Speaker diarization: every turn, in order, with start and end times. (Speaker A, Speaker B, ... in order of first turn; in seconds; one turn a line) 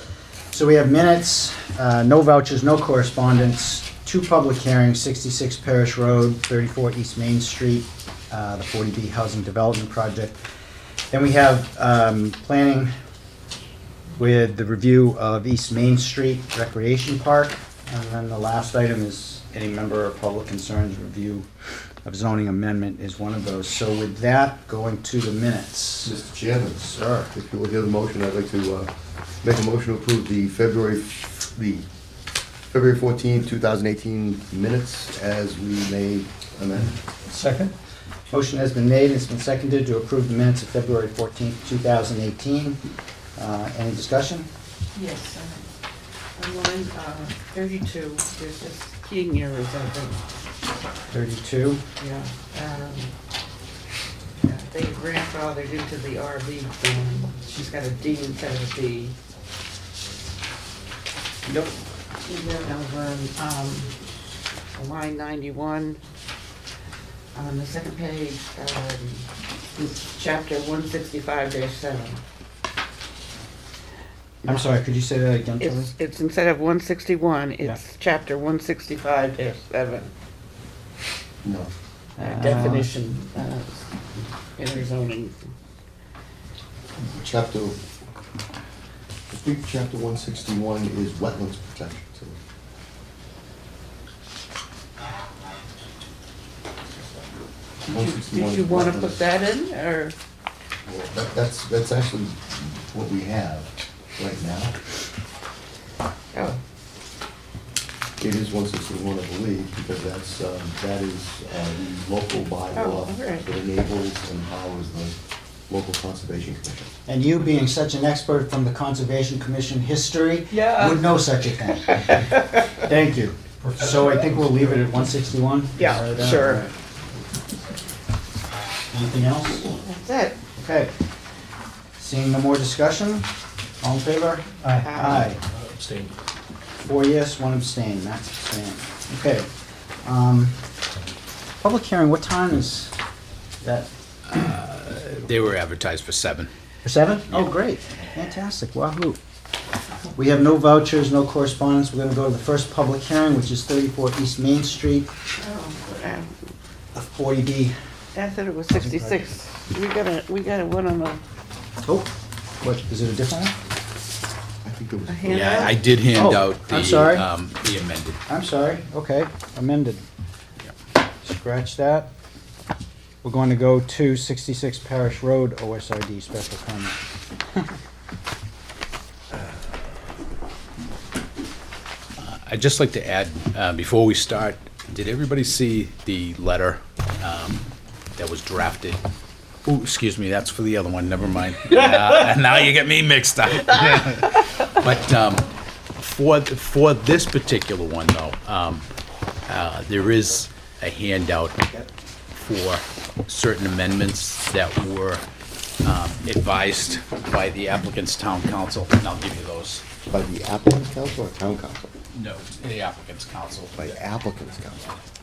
Speaker A: 0.5-10.4
Speaker A: 11.1-12.9
Speaker A: 14.2-21.5
Speaker A: 22.1-26.1
Speaker B: 26.1-28.9
Speaker B: 29.4-31.9
Speaker B: 32.7-37.0
Speaker A: 37.3-37.7
Speaker A: 38.3-42.8
Speaker A: 43.4-44.5
Speaker C: 45.0-45.7
Speaker C: 46.4-50.2
Speaker A: 51.1-51.8
Speaker C: 52.0-53.1
Speaker C: 54.4-59.2
Speaker C: 62.3-63.9
Speaker C: 64.8-66.0
Speaker C: 67.3-72.2
Speaker A: 74.4-76.0
Speaker C: 75.6-80.1
Speaker B: 81.4-81.7
Speaker A: 82.2-83.0
Speaker C: 82.2-83.9
Speaker C: 84.6-85.4
Speaker B: 87.0-87.8
Speaker B: 89.3-92.4
Speaker C: 97.9-100.2
Speaker B: 97.9-99.2
Speaker B: 100.9-104.8
Speaker C: 106.3-106.6
Speaker B: 108.2-115.2
Speaker C: 112.8-113.5
Speaker B: 115.7-116.9
Speaker A: 117.1-126.7
Speaker C: 120.5-121.1
Speaker C: 121.9-122.6
Speaker C: 125.8-126.7
Speaker A: 128.9-129.7
Speaker C: 129.7-130.4
Speaker A: 130.6-130.9
Speaker A: 132.0-133.3
Speaker A: 133.8-135.4
Speaker C: 134.8-135.3
Speaker D: 135.6-136.1
Speaker A: 136.8-139.5
Speaker A: 140.0-140.6
Speaker A: 141.6-142.9
Speaker A: 143.6-143.9
Speaker D: 144.3-146.5
Speaker A: 146.8-149.2
Speaker A: 150.2-155.1
Speaker C: 155.4-156.5
Speaker A: 156.9-157.8
Speaker C: 158.2-161.2
Speaker A: 158.7-159.3
Speaker A: 161.8-163.6
Speaker B: 164.6-165.7
Speaker C: 165.1-165.8
Speaker D: 165.3-168.2
Speaker A: 166.1-167.3
Speaker A: 168.3-170.0
Speaker A: 171.2-172.1
Speaker A: 173.2-177.0
Speaker D: 182.2-189.0
Speaker D: 189.7-195.5
Speaker D: 196.0-198.9
Speaker D: 199.5-205.2
Speaker D: 205.8-209.8
Speaker B: 210.1-211.9
Speaker D: 212.1-213.9
Speaker B: 213.8-215.0